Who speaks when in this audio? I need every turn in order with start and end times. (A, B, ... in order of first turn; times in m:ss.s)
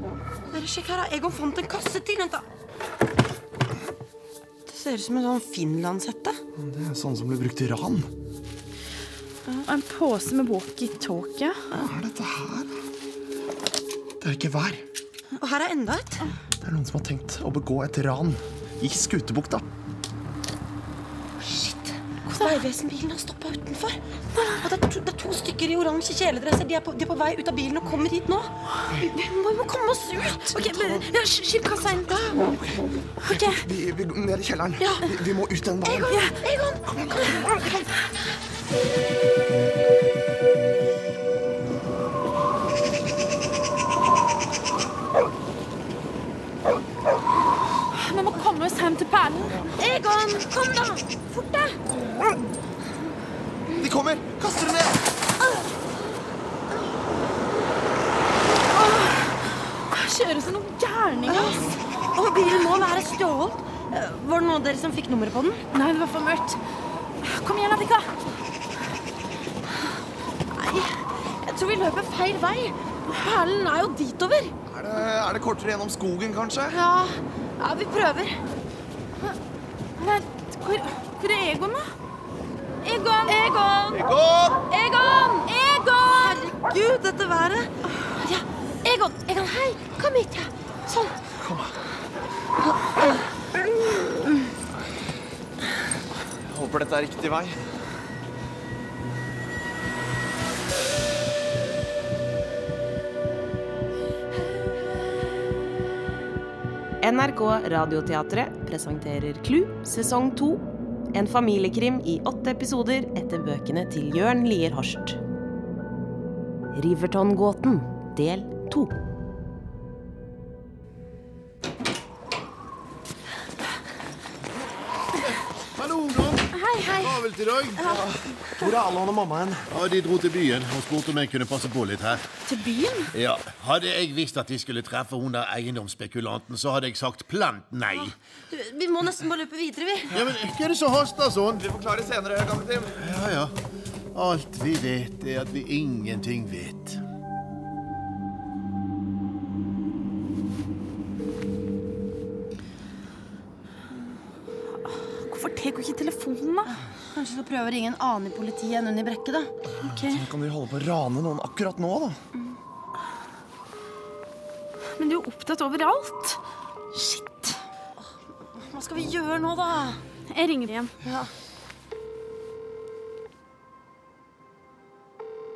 0:00.5-0:02.5 A
0:04.7-0:06.4 A
0:06.6-0:08.1 B
0:09.6-0:11.6 C
0:11.7-0:12.7 B
0:14.2-0:14.8 B
0:15.4-0:16.2 A
0:16.6-0:19.7 B
0:21.4-0:32.4 A
0:30.5-0:31.0 C
0:30.7-0:31.1 B
0:33.2-0:33.6 C
0:33.3-0:36.2 B
0:35.8-0:37.8 A
0:36.1-0:36.4 C
0:36.9-0:37.5 B
0:47.9-0:49.8 C
0:49.8-0:51.8 A
0:53.8-0:55.0 B
0:58.8-1:01.6 C
1:01.3-1:05.6 A
1:05.7-1:06.6 C
1:07.2-1:08.1 C
1:10.6-1:10.9 A
1:11.5-1:13.6 A
1:13.5-1:14.5 C
1:14.7-1:16.8 B
1:16.7-1:18.4 A
1:20.0-1:21.8 C
1:22.8-1:23.6 C
1:23.2-1:24.1 A
1:23.9-1:24.6 B
1:24.7-1:31.2 A
1:25.4-1:26.5 C
1:31.4-1:31.8 B
1:32.8-1:33.2 A
1:36.4-1:37.6 B
1:47.0-1:55.2 D
1:56.7-1:58.9 D
2:05.2-2:08.0 E
2:06.5-2:07.2 C
2:07.8-2:09.6 B
2:09.7-2:12.2 E
2:12.5-2:13.1 C
2:13.1-2:18.1 E
2:18.5-2:20.2 A
2:20.1-2:21.6 E
2:21.6-2:23.1 B
2:23.0-2:23.5 E
2:24.1-2:27.0 E
2:35.2-2:36.7 C
2:36.7-2:39.5 A
2:39.8-2:40.2 C
2:39.8-2:42.2 B
2:45.0-2:46.4 C
2:46.9-2:47.6 C
2:48.0-2:50.0 A
2:50.3-2:50.9 C
2:51.0-2:51.3 A